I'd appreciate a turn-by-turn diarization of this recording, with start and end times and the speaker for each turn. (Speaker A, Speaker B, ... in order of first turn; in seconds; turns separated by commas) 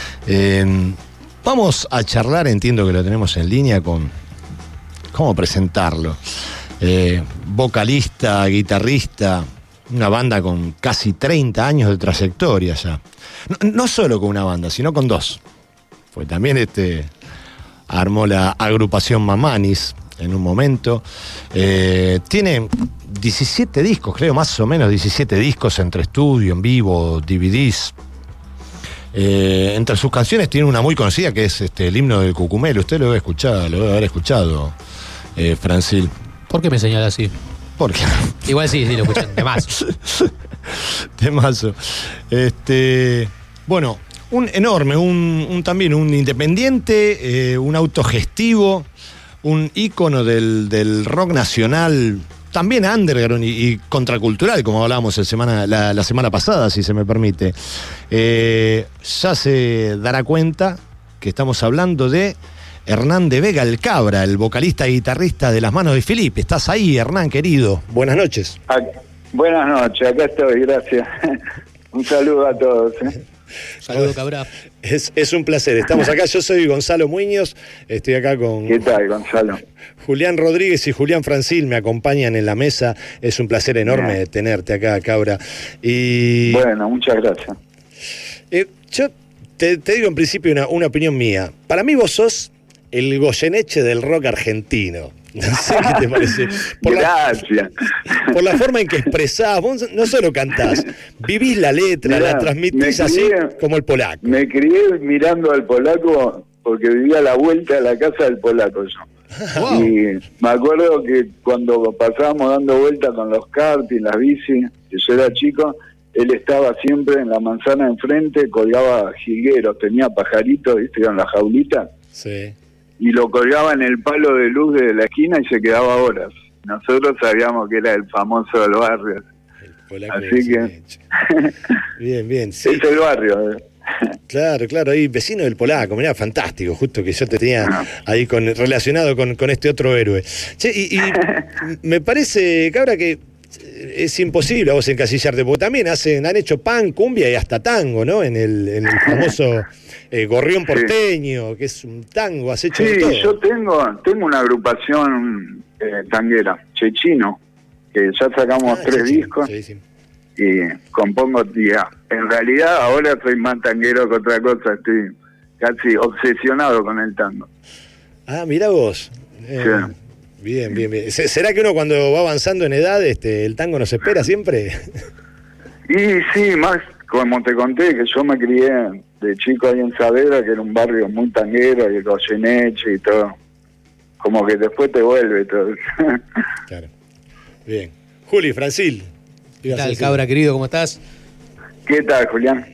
Speaker A: 0.2-4.1, Speaker A: 5.1-6.2, Speaker A: 6.8-15.4, Speaker A: 16.1-17.1, Speaker A: 17.9-27.9, Speaker A: 29.1-34.8, Speaker A: 35.4-36.1, Speaker B: 36.5-37.3, Speaker A: 37.8-48.9, Speaker B: 38.5-39.7, Speaker A: 49.4-68.6, Speaker C: 68.7-73.2, Speaker B: 73.8-74.5, Speaker A: 73.9-74.1, Speaker A: 74.8-78.9, Speaker C: 78.7-79.6, Speaker A: 80.0-86.6, Speaker C: 83.8-84.2, Speaker C: 86.5-87.6, Speaker A: 88.5-97.1, Speaker C: 95.6-98.3, Speaker A: 98.2-104.4, Speaker C: 102.0-103.5, Speaker C: 104.2-109.1, Speaker A: 109.4-109.8, Speaker B: 109.5-109.9, Speaker C: 109.6-121.9, Speaker A: 122.1-122.5, Speaker C: 123.0-129.2, Speaker A: 129.8-131.0, Speaker C: 130.1-131.5, Speaker A: 132.0-132.8, Speaker C: 132.6-134.1, Speaker A: 134.3-153.4, Speaker C: 152.7-157.4, Speaker C: 157.9-159.5, Speaker A: 158.6-159.8, Speaker C: 160.4-167.5, Speaker A: 168.3-174.9, Speaker C: 169.6-169.9, Speaker C: 175.9-183.4, Speaker C: 184.2-186.2, Speaker A: 187.7-189.1, Speaker A: 189.6-190.2, Speaker B: 189.7-191.0, Speaker C: 191.8-192.7